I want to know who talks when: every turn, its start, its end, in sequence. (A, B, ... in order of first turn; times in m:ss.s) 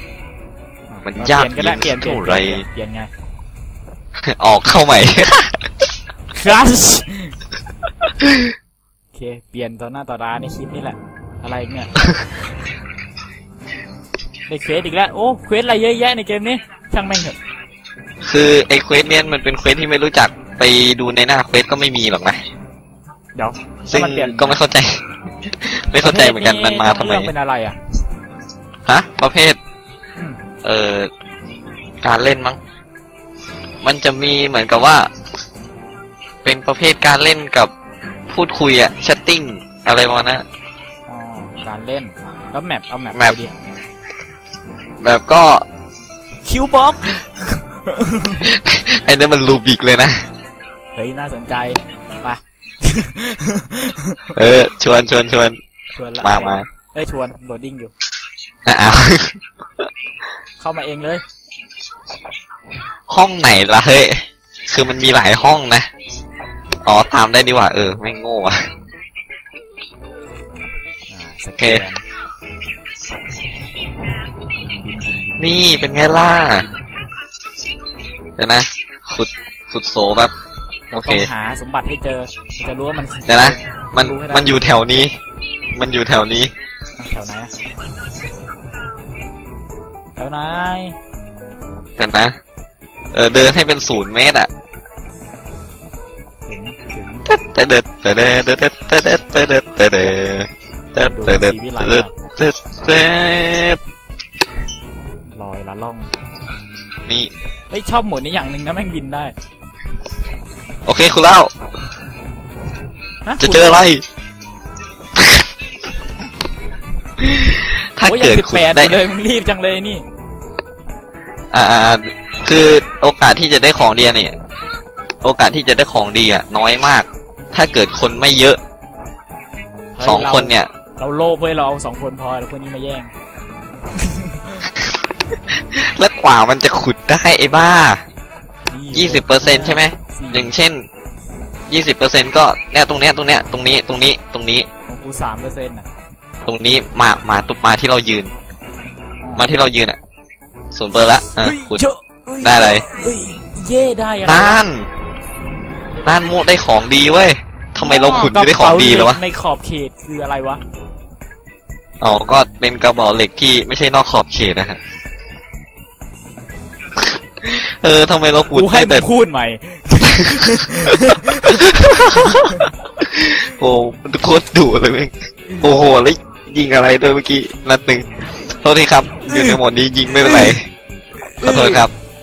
0:00.9-0:03.1 A
0:01.0-0:02.6 B
0:04.3-0:05.6 B
0:06.3-0:07.3 A
0:09.1-0:12.0 A
0:14.5-0:17.4 A
0:18.2-0:22.4 B
0:23.4-0:24.6 A
0:23.9-0:25.0 B
0:25.5-0:27.3 B
0:26.0-0:27.8 A
0:28.9-0:29.6 B
0:30.6-0:31.1 B
0:32.0-0:32.6 B
0:33.8-0:35.1 B
0:36.4-0:37.7 B
0:38.3-0:40.4 B
0:41.1-0:43.6 A
0:45.0-0:45.6 B
0:46.4-0:48.5 A
0:48.4-0:50.2 B
0:51.0-0:54.6 A
0:54.4-0:55.6 B
0:55.9-0:57.9 A
0:56.2-0:56.7 B
0:58.7-0:59.3 B
1:00.6-1:01.2 A
1:03.1-1:05.9 B
1:06.8-1:08.6 B
1:11.1-1:12.0 A
1:11.6-1:11.8 B
1:14.6-1:15.5 A
1:15.4-1:16.7 B
1:18.4-1:20.3 B
1:20.9-1:21.3 B
1:21.0-1:24.8 A
1:23.3-1:25.1 B
1:25.8-1:26.5 B
1:27.0-1:27.5 A
1:30.2-1:31.0 A
1:32.0-1:32.4 B
1:33.1-1:34.5 B
1:36.4-1:37.3 A
1:37.3-1:43.8 B
1:41.0-1:42.1 A
1:45.3-1:46.1 A
1:47.1-1:47.3 B
1:47.7-1:49.3 A
1:50.9-1:51.5 B
1:53.2-1:53.8 A
1:53.4-1:54.0 B
1:55.2-1:55.4 B
1:57.2-1:59.0 B
1:58.0-2:00.0 A
2:01.5-2:04.4 B
2:05.2-2:08.6 B
2:10.0-2:13.1 A
2:10.0-2:10.7 B
2:14.0-2:14.7 A
2:15.7-2:18.0 B
2:18.7-2:20.5 A
2:18.9-2:20.9 B
2:21.7-2:24.7 B
2:24.9-2:25.9 A
2:26.5-2:28.3 B
2:29.2-2:29.5 A
2:29.4-2:30.0 B
2:30.7-2:31.8 B
2:31.2-2:34.6 A
2:32.4-2:32.8 B
2:34.2-2:34.9 B
2:36.0-2:39.2 B
2:37.8-2:40.6 A
2:42.0-2:44.8 B
2:47.4-2:49.1 B
2:48.5-2:52.7 A
2:50.9-3:00.6 B
2:59.2-2:59.6 A
3:00.1-3:00.6 A
3:01.4-3:01.9 A
3:01.4-3:01.9 B